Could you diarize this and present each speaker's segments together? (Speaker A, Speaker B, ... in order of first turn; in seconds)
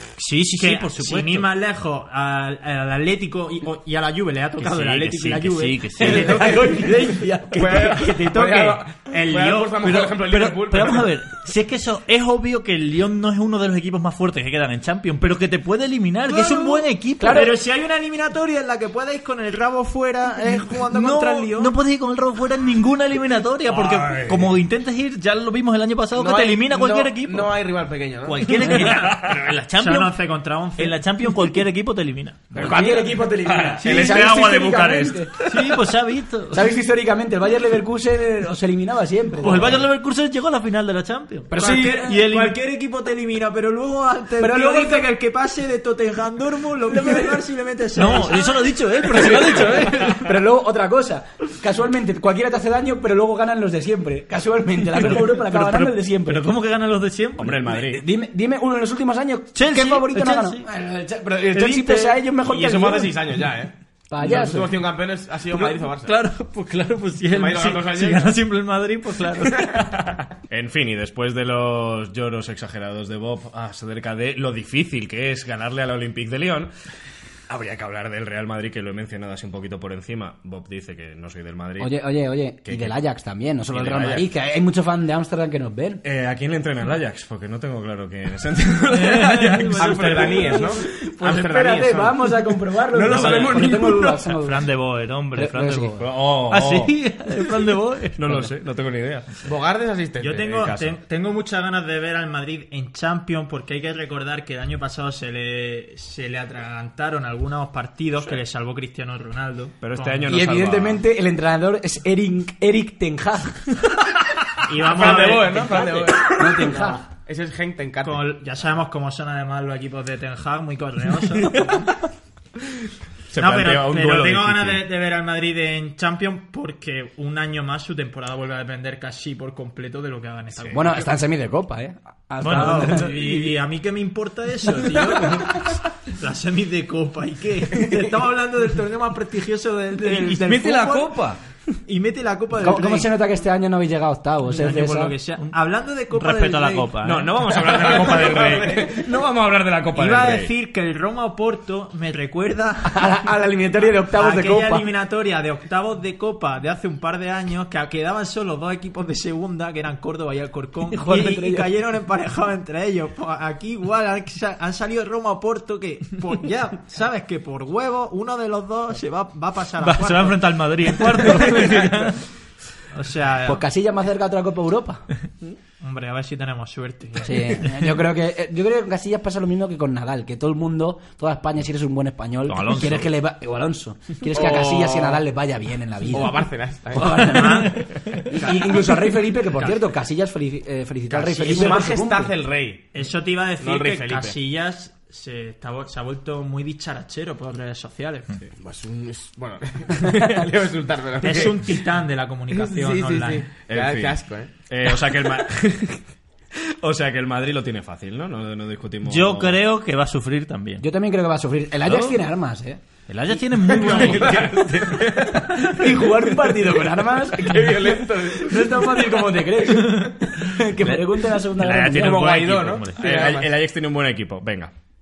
Speaker A: 0.2-1.5, 4.6-6.6, 9.8-17.5, 20.9-27.5, 28.2-30.1, 30.8-32.9, 33.8-34.2, 35.4-36.6, 39.4-42.5, 47.9-50.3, 54.9-57.7, 59.5-60.6, 65.5-69.9, 88.9-90.7, 93.1-98.2, 132.4-133.1, 146.1-147.3, 169.8-172.2, 182.5-183.1, 187.7-188.2, 209.0-210.8, 211.9-212.1, 213.1-215.0, 221.6-223.0
Speaker B: 0.6-9.9, 16.3-21.7, 23.7-24.5, 29.8-31.0, 41.5-48.7, 100.2-110.3, 114.6-115.9, 118.0-122.0, 123.3-131.1, 132.5-141.2, 141.8-143.1, 144.5-147.0, 149.9-153.0, 154.1-171.9, 172.9-173.6, 175.8-177.8, 187.1-188.2, 191.4-191.8, 192.9-198.3, 201.2-203.5
Speaker C: 6.0-8.1, 17.2-17.5, 32.5-35.4, 36.5-39.8, 41.5-42.2, 44.4-45.1, 46.9-47.4, 49.1-56.5, 57.6-63.2, 64.1-64.8, 81.8-86.0, 90.5-94.7, 95.3-96.0, 98.2-98.5, 110.2-113.8, 115.8-117.0, 130.7-133.4, 142.6-145.1, 152.8-154.8, 160.9-161.7, 173.4-175.0, 177.2-186.4, 186.9-192.3, 210.8-212.8, 215.5-222.3
Speaker D: 7.6-11.1, 26.1-28.5, 61.5-61.9, 62.4-66.1, 67.3-68.3, 89.8-92.4, 92.9-94.2, 99.4-100.6, 114.8-118.2, 147.5-149.1, 184.3-185.2, 186.1-187.3, 191.1-192.9, 193.6-194.3, 198.6-201.6, 202.5-204.5, 213.6-215.5, 217.3-218.9, 221.8-223.6
Speaker E: 28.9-29.4, 32.6-35.3, 57.4-58.0, 70.5-76.7, 77.5-81.9, 82.6-82.9, 83.7-84.2, 86.0-90.5, 95.9-96.9, 98.2-99.3, 100.5-101.0, 109.8-111.0, 123.3-124.8, 133.0-133.5, 140.0-141.4, 147.0-150.5, 203.7-206.0, 206.8-209.6, 214.9-215.8, 223.0-224.7